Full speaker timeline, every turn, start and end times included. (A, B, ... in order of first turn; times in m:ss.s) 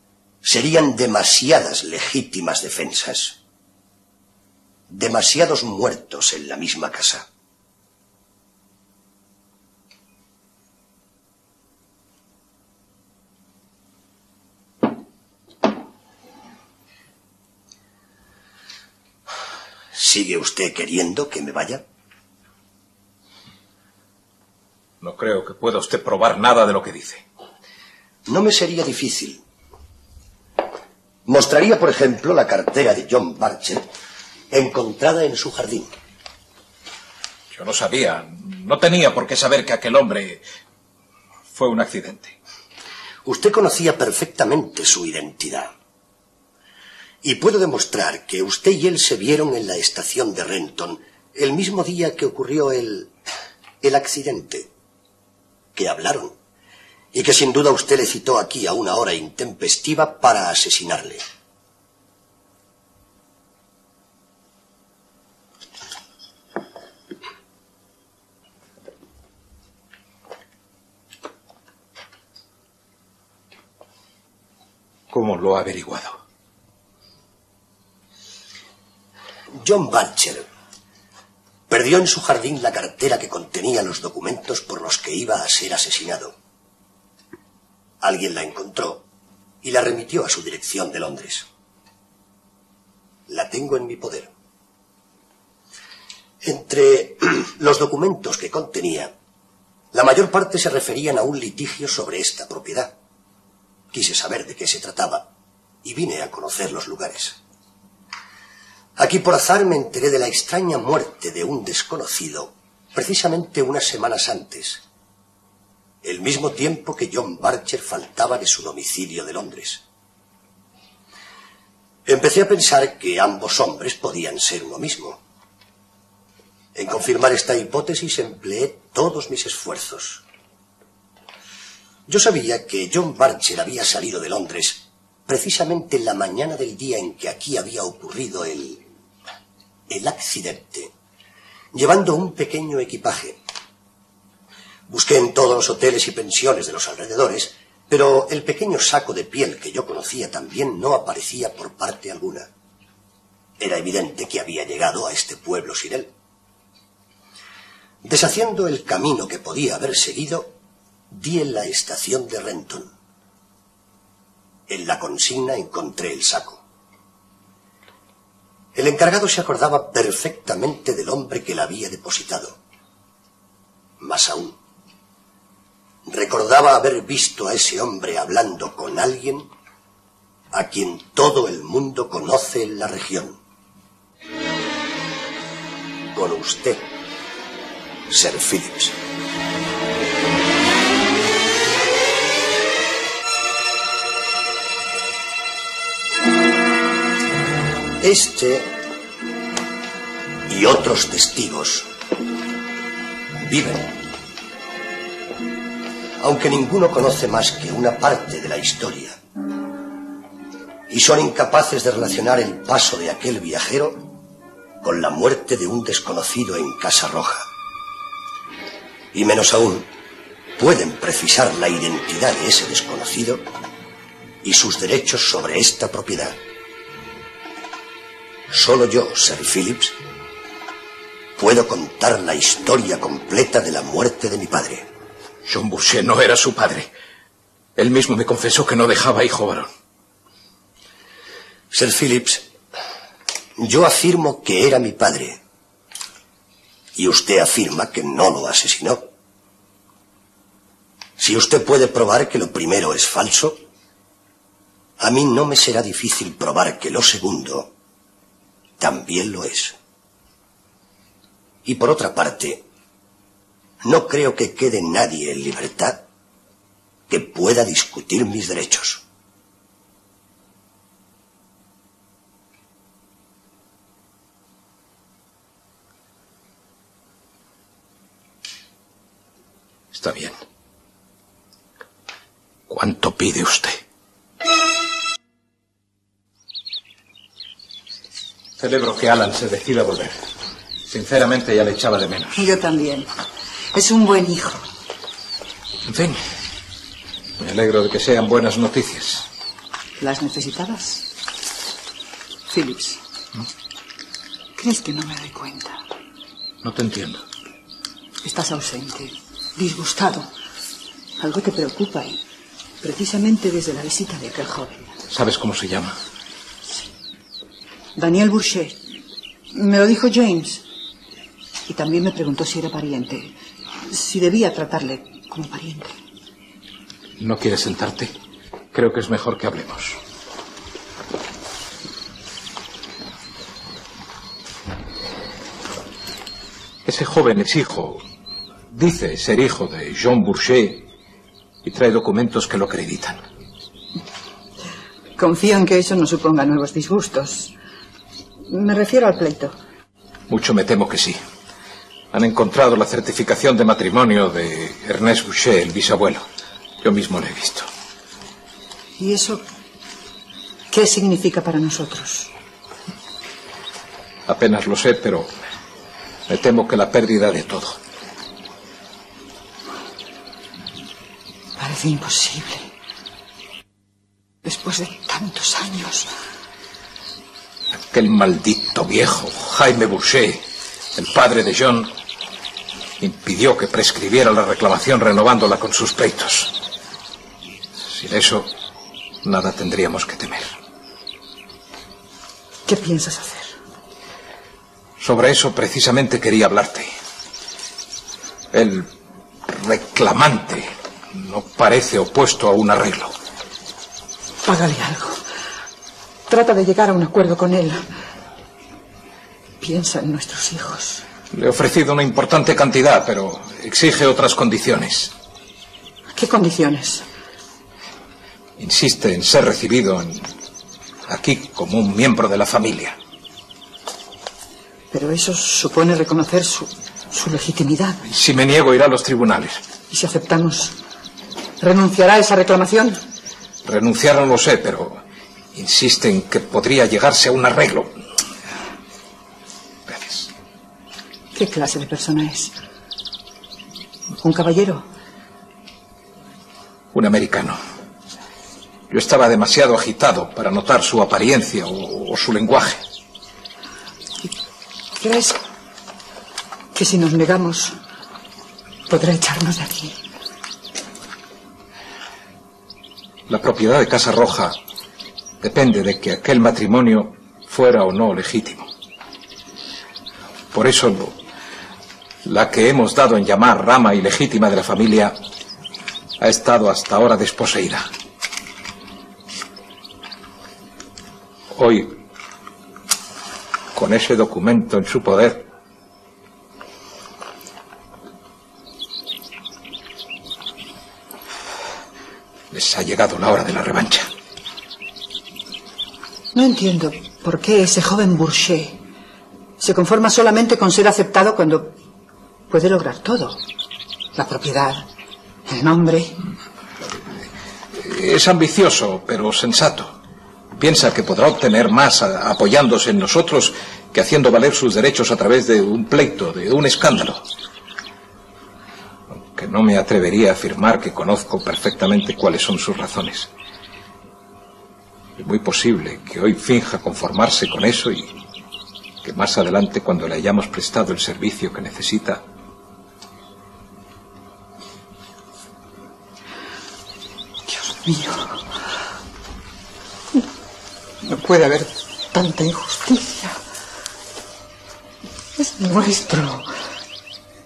0:00.4-0:03.4 A
0:04.9-0:07.2 A
0:19.9-0:21.8 A
0:25.0-0:27.2 B
0:28.3-0:29.4 A
0:31.2-0:33.9 A
0:34.5-0:35.9 A
0:37.5-0:40.4 B
0:41.5-0:42.4 B
0:43.2-0:45.7 A
0:47.2-0:53.1 A
0:53.8-0:54.7 A
0:55.7-0:56.4 A
0:57.1-1:01.2 A
1:15.1-1:16.2 B
1:19.5-1:20.4 A
1:21.7-1:26.4 A
1:28.0-1:29.0 A
1:29.6-1:31.5 A
1:33.3-1:34.3 A
1:36.4-1:39.1 A
1:39.9-1:42.9 A
1:43.9-1:45.3 A
1:45.8-1:47.4 A
1:49.0-1:54.8 A
1:56.0-1:59.8 A
2:02.0-2:05.2 A
2:06.7-2:10.2 A
2:12.1-2:18.8 A
2:19.9-2:20.9 A
2:21.7-2:23.4 A
2:24.9-2:32.5 A
2:33.6-2:36.1 A
2:38.0-2:40.5 A
2:41.1-2:42.9 A
2:44.7-2:46.6 A
2:48.7-2:52.6 A
2:54.0-2:54.6 A
2:56.1-2:59.5 A
3:00.5-3:03.4 A
3:06.1-3:06.9 A
3:08.1-3:09.0 A
3:18.0-3:18.7 A
3:20.5-3:21.9 A
3:23.4-3:23.9 A
3:26.2-3:29.2 A
3:30.9-3:34.0 A
3:34.8-3:37.5 A
3:39.1-3:39.9 A
3:40.6-3:43.5 A
3:44.4-3:46.4 A
3:48.5-3:50.0 A
3:51.4-3:54.9 A
3:55.4-3:56.9 B
3:57.8-3:59.7 B
4:01.7-4:02.5 A
4:03.6-4:05.4 A
4:06.9-4:09.0 A
4:11.2-4:13.6 A
4:15.0-4:17.7 A
4:18.8-4:19.8 A
4:21.6-4:22.6 A
4:23.8-4:26.0 A
4:27.1-4:29.0 A
4:39.9-4:40.4 B
4:42.7-4:43.8 B
4:48.6-4:50.2 B
4:50.9-4:52.4 B
4:52.3-4:53.1 C
4:53.7-4:54.6 C
4:55.9-4:56.2 B
4:57.4-4:59.2 B
5:00.0-5:01.1 C
5:02.5-5:03.0 C
5:04.6-5:05.8 C
5:06.6-5:07.2 B
5:08.2-5:10.3 C
5:11.2-5:12.2 C
5:12.8-5:15.0 C
5:15.1-5:16.0 B
5:18.0-5:18.8 C
5:19.5-5:20.6 C
5:21.7-5:23.3 C
5:23.9-5:25.9 C
5:27.2-5:28.1 B
5:28.7-5:30.0 B
5:36.8-5:38.0 B
5:38.7-5:40.9 B
5:41.6-5:43.2 B
5:45.2-5:47.5 C
5:48.5-5:49.6 C
5:50.3-5:51.2 B
5:52.1-5:56.2 B
5:56.8-5:57.7 B
5:59.0-5:59.4 C
6:00.7-6:02.3 C
6:04.3-6:05.3 B
6:06.3-6:07.8 B
6:11.6-6:12.7 C
6:14.4-6:16.1 C
6:17.9-6:20.4 B
6:21.0-6:21.9 B
6:23.0-6:26.5 B
6:27.9-6:28.5 B
6:29.2-6:30.5 B
6:32.6-6:33.6 C
6:35.0-6:36.9 B
6:38.5-6:38.9 B
6:39.5-6:43.1 B
6:44.4-6:45.2 C
6:46.3-6:47.8 C
6:49.6-6:51.0 C
6:51.3-6:55.1 B
6:56.1-6:57.0 C
6:58.6-7:00.3 B
7:01.1-7:03.0 B
7:04.9-7:08.0 C
7:08.1-7:09.6 B
7:09.9-7:10.7 C
7:11.6-7:13.0 C
7:13.6-7:15.0 B
7:15.5-7:18.0 B
7:19.9-7:20.3 B
7:21.3-7:22.5 C
7:24.2-7:24.9 C
7:26.9-7:27.6 B
7:28.9-7:32.8 B
7:35.0-7:35.4 C
7:36.7-7:37.7 C
7:38.9-7:40.0 C
7:43.3-7:44.6 B
7:45.4-7:48.7 B
7:50.5-7:51.2 B
7:52.2-7:55.2 B
7:56.2-7:57.9 B
8:01.5-8:02.0 B
8:03.7-8:05.4 B
8:12.5-8:14.1 B
8:16.3-8:18.8 C
8:19.6-8:21.8 C
8:22.5-8:23.4 C
8:24.1-8:24.9 C
8:25.5-8:26.2 C
8:27.7-8:29.9 B
8:30.6-8:37.2 B
8:39.1-8:43.3 B
8:45.2-8:48.1 B
8:49.0-8:52.2 B
8:57.5-8:58.4 C
9:01.0-9:03.4 C
9:05.4-9:06.5 C